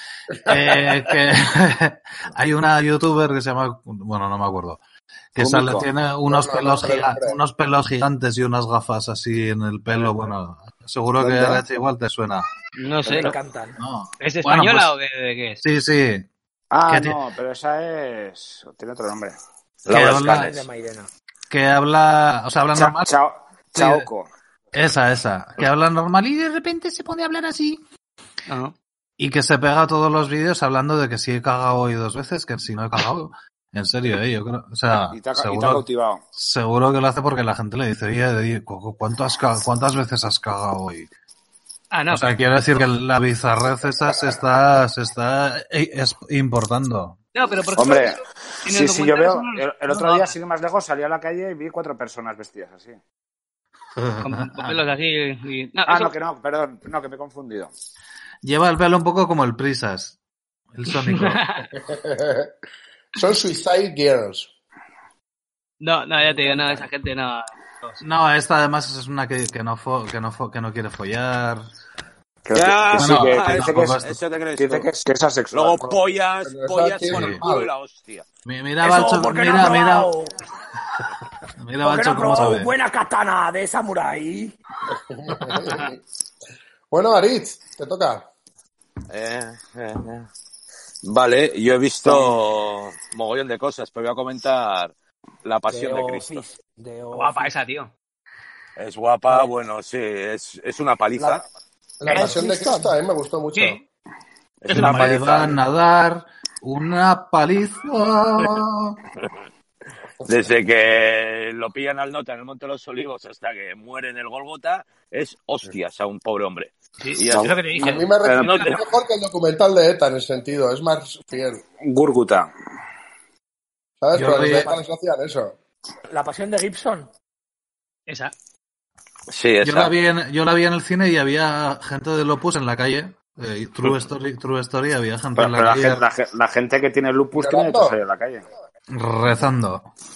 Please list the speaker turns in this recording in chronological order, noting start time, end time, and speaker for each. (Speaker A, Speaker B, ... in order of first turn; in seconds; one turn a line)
Speaker A: 0.4-4.8
Speaker A: 5.3-12.5
Speaker B: 5.4-5.9
Speaker C: 6.3-7.4
Speaker B: 11.2-11.6
Speaker D: 12.8-13.3
Speaker B: 13.1-13.3
Speaker E: 13.1-13.8
Speaker A: 13.8-14.9
Speaker D: 14.2-15.6
Speaker A: 15.6-16.3
Speaker B: 16.7-19.4
Speaker A: 16.9-17.2
Speaker F: 19.9-20.6
Speaker A: 19.9-20.5
Speaker E: 19.9-21.1
Speaker A: 21.5-23.1
Speaker B: 22.7-24.3
Speaker A: 23.7-24.1
Speaker A: 24.7-27.8
Speaker D: 28.5-28.7
Speaker A: 29.2-41.1
Speaker B: 35.1-36.2
Speaker D: 41.9-42.3
Speaker A: 42.1-47.2
Speaker D: 47.3-50.3
Speaker B: 47.8-53.0
Speaker A: 54.0-54.8
Speaker D: 54.2-56.1
Speaker B: 55.9-57.7
Speaker A: 58.4-60.1
Speaker A: 60.7-61.4
Speaker D: 60.9-61.7
Speaker C: 61.8-62.5
Speaker C: 63.1-64.5
Speaker D: 65.8-68.0
Speaker A: 68.0-71.7
Speaker B: 72.4-74.0
Speaker F: 72.5-74.9
Speaker A: 73.0-74.2
Speaker B: 74.5-75.8
Speaker F: 75.5-78.2
Speaker C: 75.9-77.7
Speaker A: 77.1-77.4
Speaker A: 78.5-80.1
Speaker E: 78.8-80.3
Speaker A: 81.6-82.7
Speaker E: 81.8-84.5
Speaker C: 84.9-86.0
Speaker C: 86.9-88.2
Speaker F: 89.1-90.3
Speaker F: 91.0-94.9
Speaker F: 95.4-96.4
Speaker E: 95.7-97.5
Speaker D: 97.1-97.9
Speaker F: 98.8-101.4
Speaker C: 102.0-103.8
Speaker E: 102.0-102.9
Speaker D: 102.1-102.4
Speaker D: 103.5-103.8
Speaker F: 104.6-105.6
Speaker A: 104.7-109.0
Speaker F: 110.2-117.5
Speaker D: 117.0-118.8
Speaker B: 117.3-118.6
Speaker C: 117.8-121.6
Speaker B: 121.8-122.5
Speaker C: 124.0-125.5
Speaker A: 124.1-124.7
Speaker E: 124.3-124.8
Speaker E: 126.1-127.1
Speaker D: 128.1-128.3
Speaker F: 129.3-129.9
Speaker A: 129.6-136.0
Speaker B: 135.3-138.4
Speaker C: 137.3-138.0
Speaker A: 138.9-139.9